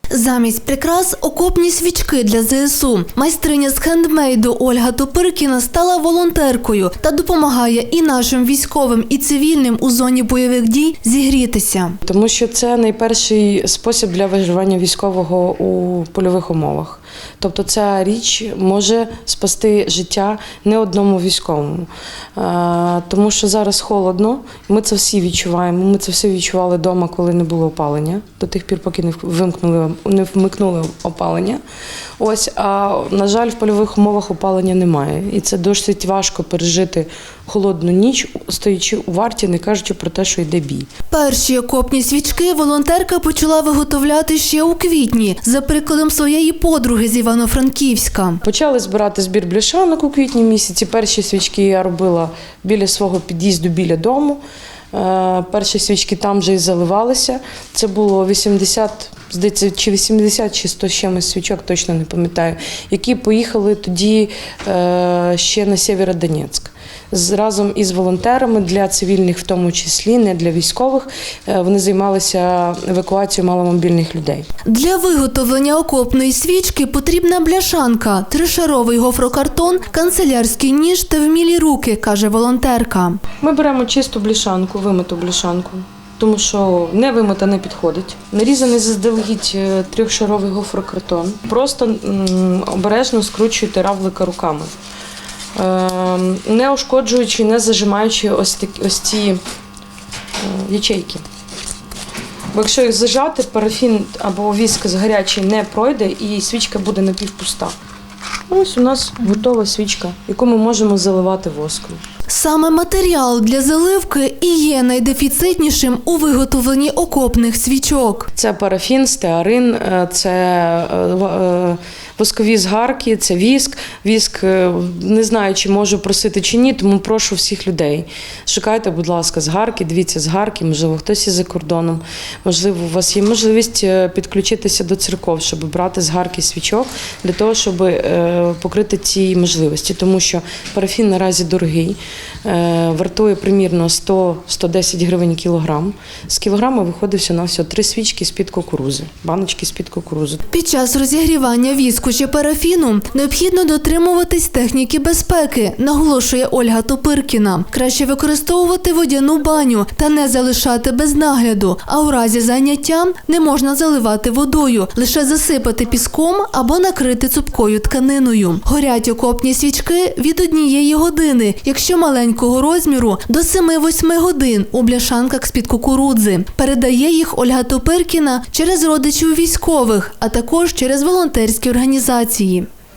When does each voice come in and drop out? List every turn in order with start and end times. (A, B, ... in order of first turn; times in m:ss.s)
0:00.1-0:12.0 A
0:12.0-0:31.6 B
0:32.2-0:40.9 B
0:41.1-0:48.4 A
0:48.4-0:54.4 B
0:54.9-1:14.5 B
1:14.7-1:23.2 A
1:23.4-1:34.7 B
1:35.6-1:39.4 B
1:40.4-1:41.2 B
1:42.5-1:47.8 B
1:48.5-1:52.0 B
1:52.3-1:58.3 A
1:58.4-2:30.4 B
2:30.5-3:02.7 A